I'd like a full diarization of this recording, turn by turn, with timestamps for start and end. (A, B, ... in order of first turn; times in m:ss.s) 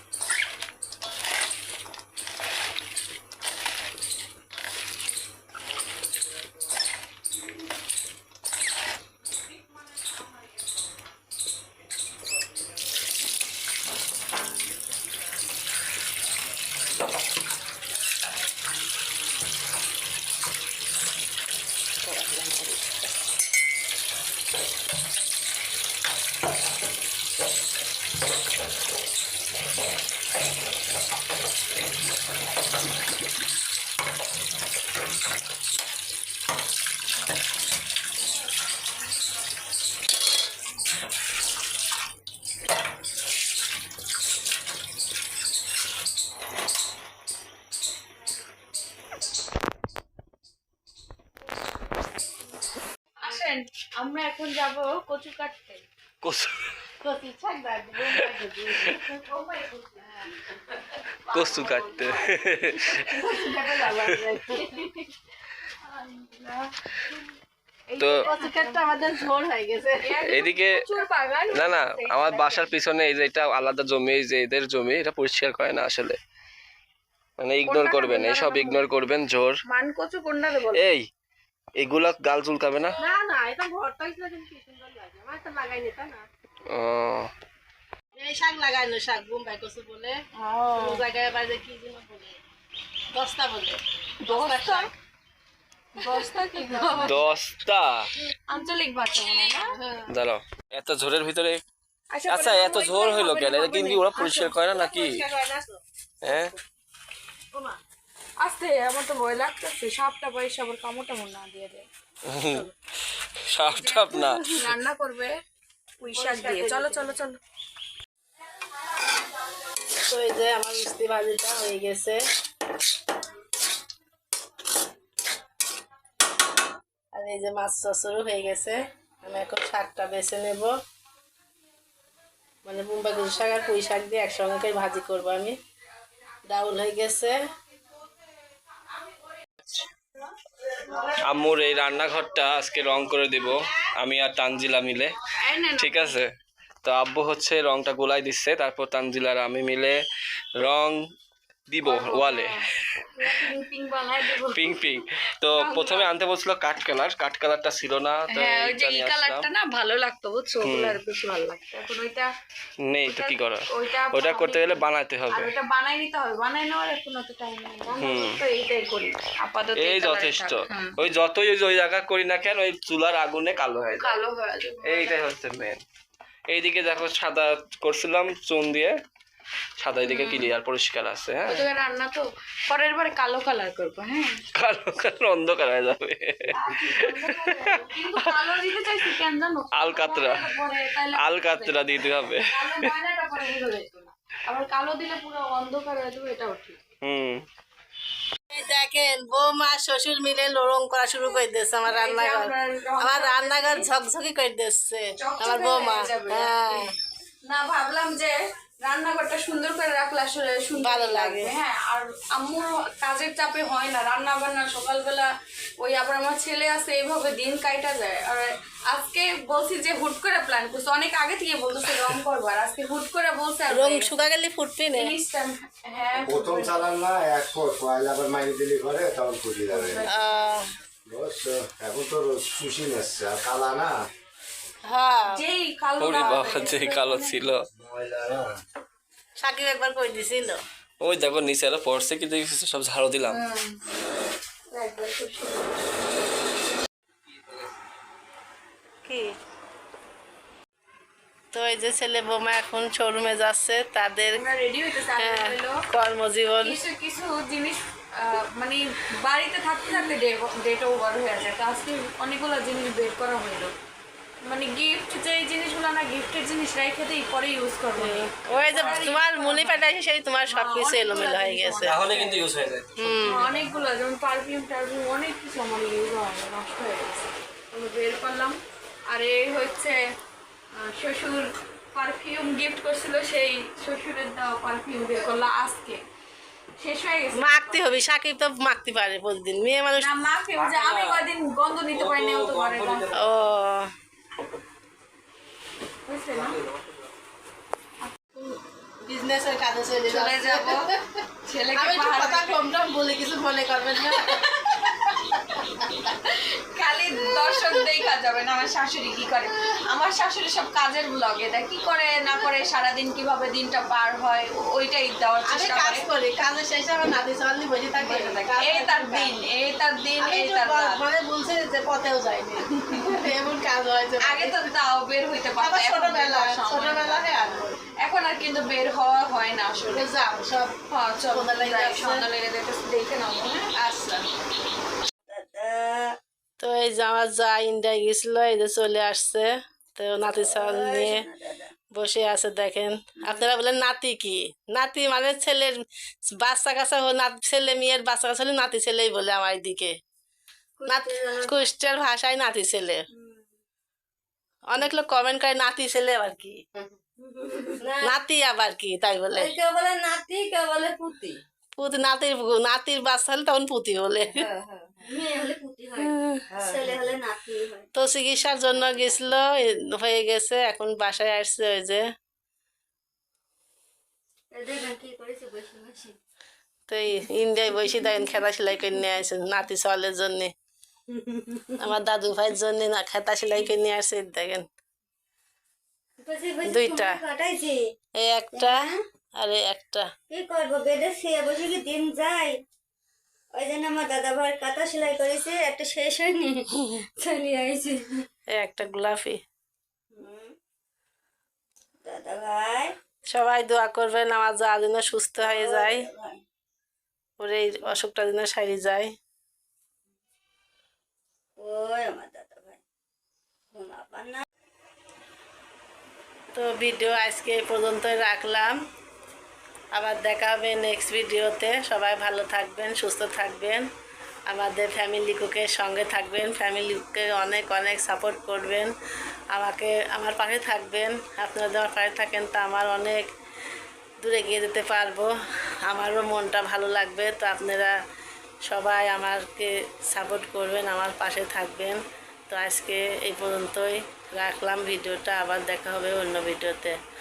0:22.0-0:23.1 A
0:53.2-0:55.8 B
0:56.2-0:56.5 C
0:57.0-0:59.3 A
0:58.1-0:58.8 C
0:59.2-0:59.8 B
1:00.8-1:02.3 B
1:01.3-1:03.2 C
1:02.8-1:04.9 A
1:03.0-1:03.5 B
1:04.6-1:04.9 B
1:05.8-1:07.1 B
1:07.9-1:09.0 B
1:08.0-1:08.2 C
1:08.2-1:10.1 A
1:10.0-1:12.7 B
1:10.2-1:10.8 C
1:11.5-1:16.2 C
1:17.4-1:19.6 C
1:17.6-1:18.8 B
1:19.7-1:20.8 B
1:20.7-1:21.1 C
1:21.8-1:23.0 C
1:23.0-1:26.2 A
1:26.7-1:27.3 C
1:28.1-1:32.4 A
1:30.4-1:31.0 B
1:33.1-1:34.9 A
1:34.2-1:34.9 B
1:36.0-1:37.2 B
1:37.0-1:38.1 C
1:38.5-1:39.7 B
1:39.7-1:40.1 A
1:40.1-1:41.6 C
1:42.1-1:44.5 B
1:42.3-1:45.2 C
1:44.6-1:46.6 A
1:46.2-1:46.5 C
1:47.5-1:47.8 A
1:48.4-1:51.8 B
1:52.3-1:52.7 C
1:53.5-1:54.7 C
1:53.6-1:55.3 B
1:56.0-1:57.4 B
1:56.1-1:57.2 A
2:00.0-2:02.2 A
2:07.1-2:10.8 A
2:12.6-2:15.5 A
2:16.5-2:17.3 A
2:21.0-2:25.2 C
2:25.3-2:26.2 B
2:25.8-2:26.3 C
2:26.8-2:30.0 C
2:30.6-2:31.0 C
2:31.7-2:32.5 C
2:31.8-2:32.6 B
2:33.1-2:35.0 B
2:34.5-2:39.5 C
2:35.5-2:36.1 B
2:38.3-2:42.3 B
2:40.6-2:41.0 C
2:42.9-2:45.5 C
2:43.0-2:51.0 B
2:48.0-2:48.4 C
2:49.8-2:54.2 C
2:54.0-2:55.2 B
2:54.8-2:55.8 C
2:56.5-2:58.9 C
2:59.8-3:01.6 C
3:00.0-3:00.5 B
3:01.5-3:04.4 B
3:04.5-3:07.9 C
3:06.5-3:16.8 B
3:09.7-3:10.5 C
3:11.2-3:12.9 C
3:17.0-3:17.4 C
3:18.5-3:26.9 A
3:21.9-3:23.9 B
3:25.2-3:26.9 B
3:27.4-3:44.1 B
3:30.8-3:31.5 A
3:43.7-3:45.1 A
3:44.9-3:46.9 B
3:46.2-3:50.1 D
3:49.7-3:50.1 B
3:50.1-3:50.6 A
3:51.1-3:54.0 D
3:54.8-3:55.4 A
3:55.3-3:57.4 B
3:56.0-3:57.6 C
3:57.8-3:58.6 D
3:59.4-4:00.6 A
4:01.0-4:03.4 C
4:03.2-4:03.8 B
4:04.7-4:05.8 B
4:07.3-4:07.7 C
4:11.5-4:14.4 A
4:14.4-4:15.8 B
4:15.2-4:16.8 A
4:16.6-4:23.7 B
4:24.4-4:29.8 B
4:28.0-4:32.0 A
4:28.5-4:29.2 C
4:30.5-4:32.5 B
4:31.8-4:33.7 C
4:33.0-4:33.5 A
4:33.2-4:38.6 B
4:39.1-4:40.0 B
4:40.7-4:46.0 B
4:46.8-4:48.1 B
4:47.4-4:50.1 A
4:50.0-4:53.2 B
4:50.5-4:51.2 C
4:51.9-4:53.2 C
4:53.1-4:53.9 A
4:56.0-4:56.6 B
4:56.3-4:57.0 C
4:58.0-4:58.5 B
4:59.0-5:01.0 A
5:00.1-5:00.9 B
5:01.4-5:02.6 B
5:01.7-5:04.3 A
5:04.0-5:16.1 B
5:15.4-5:19.4 A
5:18.0-5:21.0 B
5:20.2-5:24.7 A
5:22.9-5:23.2 B
5:24.2-5:30.1 B
5:25.6-5:27.8 A
5:29.9-5:30.8 A
5:30.9-5:33.7 B
5:31.3-5:32.3 A
5:33.8-5:34.2 A
5:35.3-5:36.2 E
5:36.6-5:41.3 A
5:40.2-5:41.7 E
5:41.9-5:49.9 A
5:50.8-5:51.9 E
5:50.9-5:53.0 A
5:53.1-5:53.4 E
5:54.7-5:56.6 A
5:57.2-5:58.1 E
5:58.0-5:59.5 A
5:59.3-6:01.4 E
6:01.8-6:04.5 A
6:04.3-6:07.9 E
6:06.0-6:06.9 A
6:07.9-6:12.0 A
6:08.8-6:09.1 E
6:14.5-6:16.2 E
6:16.9-6:20.5 A
6:21.1-6:21.9 E
6:21.8-6:24.6 A
6:26.2-6:27.8 E
6:26.6-6:27.2 A
6:28.2-6:28.8 A
6:28.5-6:29.0 E
6:29.4-6:30.0 A
6:30.3-6:32.6 E
6:33.5-6:38.2 E
6:38.5-6:39.4 A
6:40.1-6:40.5 E
6:42.0-6:42.9 E
6:43.3-6:46.1 A
6:45.4-6:46.4 E
6:47.4-6:49.1 A
6:51.6-6:52.8 E
6:53.7-6:54.4 E
6:56.5-6:58.7 A
6:59.9-7:03.8 A
7:04.5-7:08.9 A
7:09.5-7:13.3 A
7:14.2-7:15.3 A
7:15.8-7:17.9 A
7:18.7-7:26.9 A